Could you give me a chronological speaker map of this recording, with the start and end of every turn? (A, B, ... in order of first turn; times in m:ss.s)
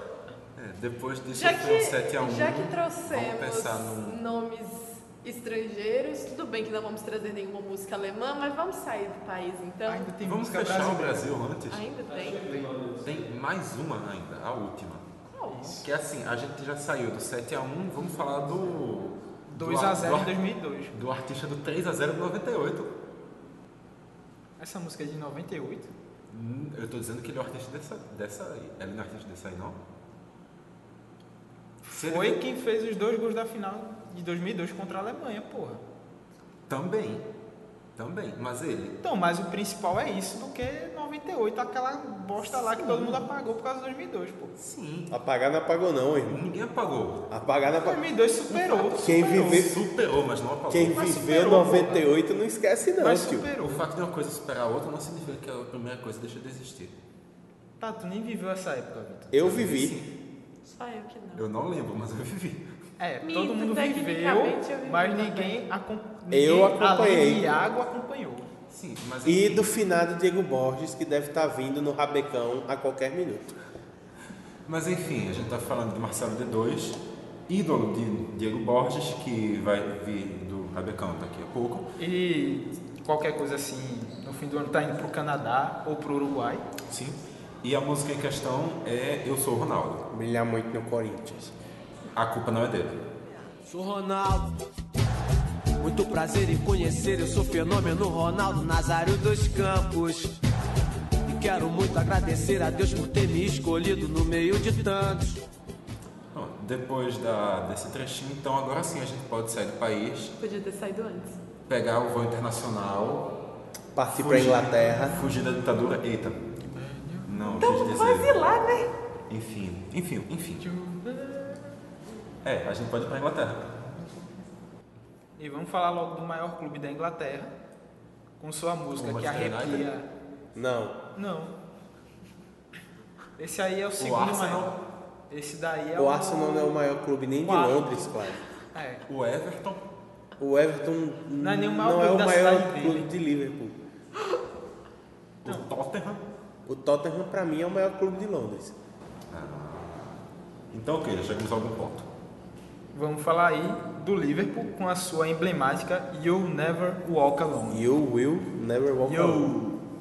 0:00.6-0:04.2 A
0:01.3-0:10.1 B
0:09.9-0:11.3 C
0:10.2-0:11.9 A
0:11.7-0:12.7 B
0:13.0-0:15.1 A
0:15.3-0:15.8 B
0:15.5-0:15.8 C
0:15.8-0:20.4 A
0:19.5-0:20.9 C
0:20.9-0:22.9 A
0:24.6-0:25.9 C
0:26.3-0:29.8 A
0:31.9-0:32.4 A
0:31.9-0:35.8 C
0:36.7-0:37.3 A
0:38.0-0:39.0 A
0:39.0-0:44.5 C
0:44.6-0:45.2 A
0:45.1-0:46.4 D
0:46.3-0:47.3 A
0:47.3-0:48.0 D
0:47.8-0:49.6 C
0:48.5-0:51.2 A
0:49.0-0:49.8 D
0:50.7-0:53.5 D
0:51.0-0:52.1 C
0:53.0-0:53.8 C
0:53.6-0:56.9 A
0:57.8-0:59.3 C
0:59.3-1:00.0 D
0:59.4-1:00.1 A
1:00.6-1:01.5 B
1:01.4-1:02.7 A
1:03.0-1:08.5 C
1:03.2-1:05.6 B
1:06.3-1:07.5 D
1:08.7-1:09.7 A
1:09.2-1:13.5 D
1:14.7-1:21.9 A
1:22.0-1:26.6 C
1:26.9-1:30.0 A
1:30.1-1:31.5 D
1:32.2-1:33.0 A
1:33.7-1:34.5 E
1:35.8-1:40.3 E
1:41.3-1:45.3 E
1:46.3-1:50.4 A
1:50.4-1:51.4 B
1:51.7-1:53.3 A
1:54.0-1:55.3 D
1:54.1-1:56.4 A
1:56.7-1:57.3 C
1:57.3-1:58.4 A
1:57.5-1:58.9 B
1:59.3-2:00.7 A
2:00.6-2:01.7 C
2:02.4-2:04.2 A
2:05.4-2:07.5 C
2:08.4-2:10.1 C
2:09.0-2:09.9 A
2:10.6-2:11.0 D
2:11.2-2:11.5 C
2:13.4-2:14.7 C
2:14.0-2:14.8 A
2:15.3-2:16.8 C
2:16.0-2:18.4 D
2:17.4-2:18.1 C
2:18.7-2:19.0 C
2:19.1-2:19.9 A
2:20.4-2:23.8 D
2:21.4-2:23.1 C
2:25.4-2:26.2 A
2:26.7-2:28.8 D
2:29.3-2:32.1 A
2:32.9-2:37.9 C
2:37.7-2:39.5 D
2:39.0-2:39.8 C